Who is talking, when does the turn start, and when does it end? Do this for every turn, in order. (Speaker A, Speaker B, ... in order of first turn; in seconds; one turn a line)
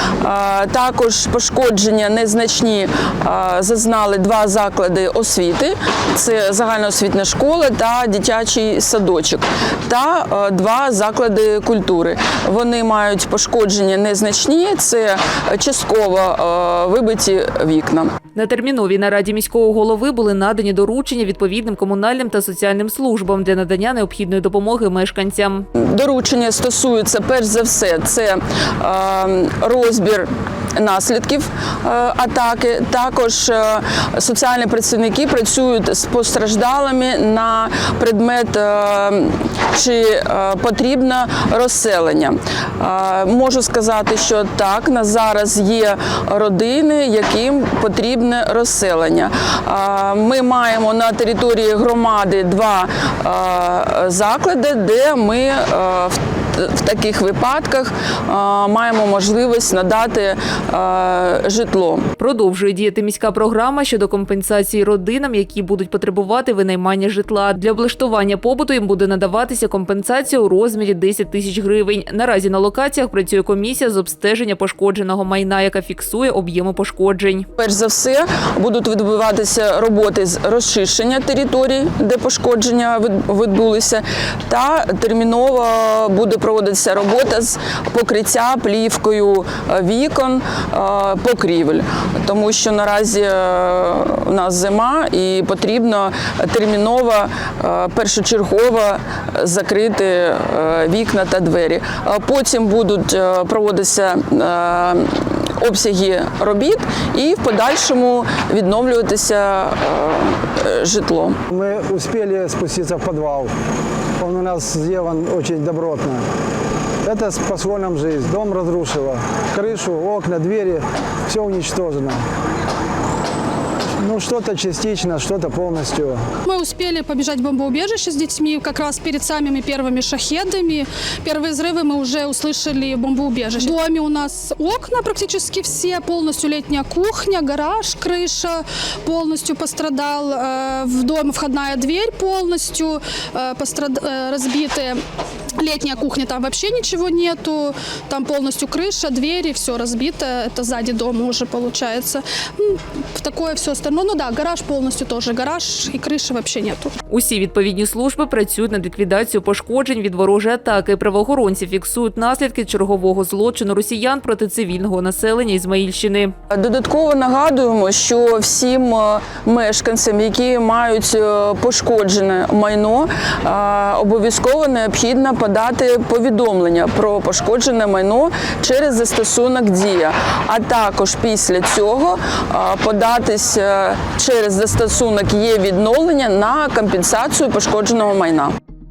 Speaker A: 0.2-18.1
Speaker B: 18.3-25.6
Speaker A: 25.8-62.0
Speaker B: 62.2-77.5
Speaker A: 77.6-111.4
Speaker C: 111.5-113.5
Speaker C: 114.2-116.2
Speaker C: 117.0-122.2
Speaker C: 124.0-126.2
Speaker D: 126.5-145.0
Speaker D: 145.6-156.9
Speaker B: 157.1-166.3
Speaker A: 166.5-188.5